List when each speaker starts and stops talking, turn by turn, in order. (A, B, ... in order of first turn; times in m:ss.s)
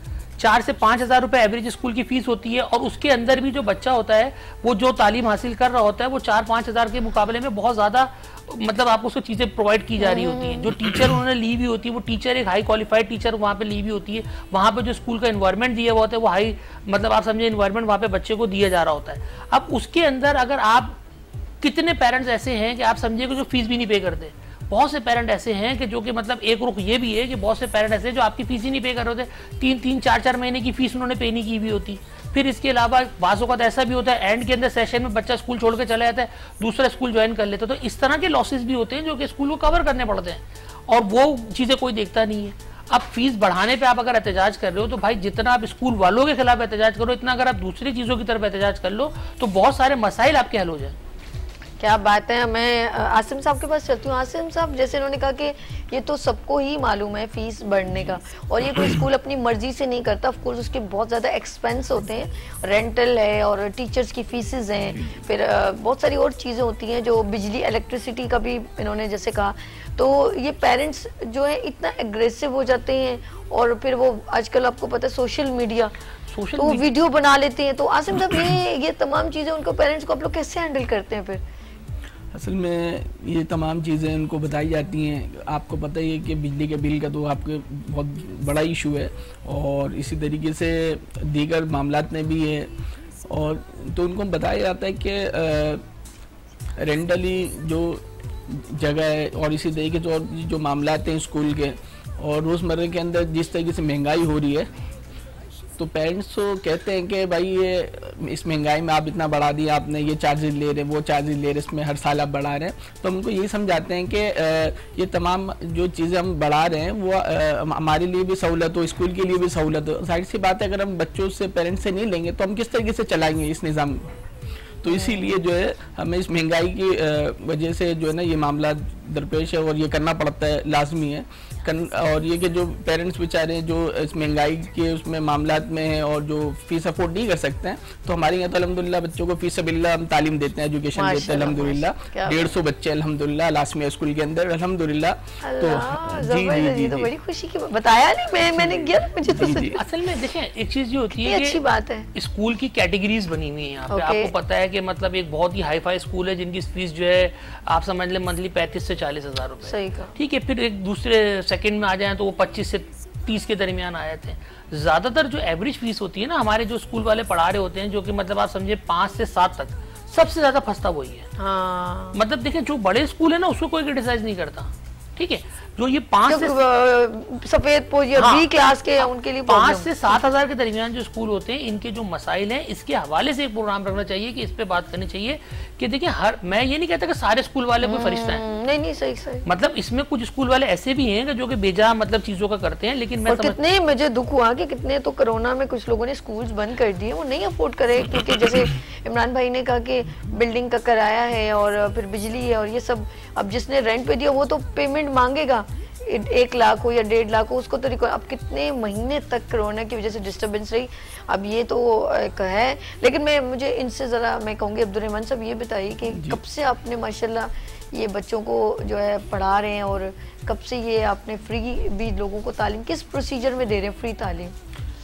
0:00.4-0:21.0 A
0:10.0-0:10.7 B
0:21.6-0:50.9 A
0:51.8-1:15.9 B
1:16.3-1:16.9 A
1:16.6-1:21.4 B
1:22.3-1:32.7 C
1:33.3-1:35.8 C
1:36.8-1:44.7 C
1:45.8-2:04.1 C
2:04.8-2:27.1 C
2:04.9-2:05.3 B
2:20.9-2:22.5 B
2:25.4-2:29.8 B
2:28.6-2:29.8 C
2:29.8-2:31.6 A
2:31.2-2:32.1 B
2:32.1-2:51.3 A
2:33.9-2:34.3 B
2:39.6-2:40.1 B
2:51.4-2:52.2 B
2:52.1-2:56.6 A
2:56.3-3:00.2 B
2:58.2-3:08.4 A
3:07.8-3:09.5 B
3:09.4-3:13.6 A
3:13.3-3:44.5 B
3:36.1-3:36.4 C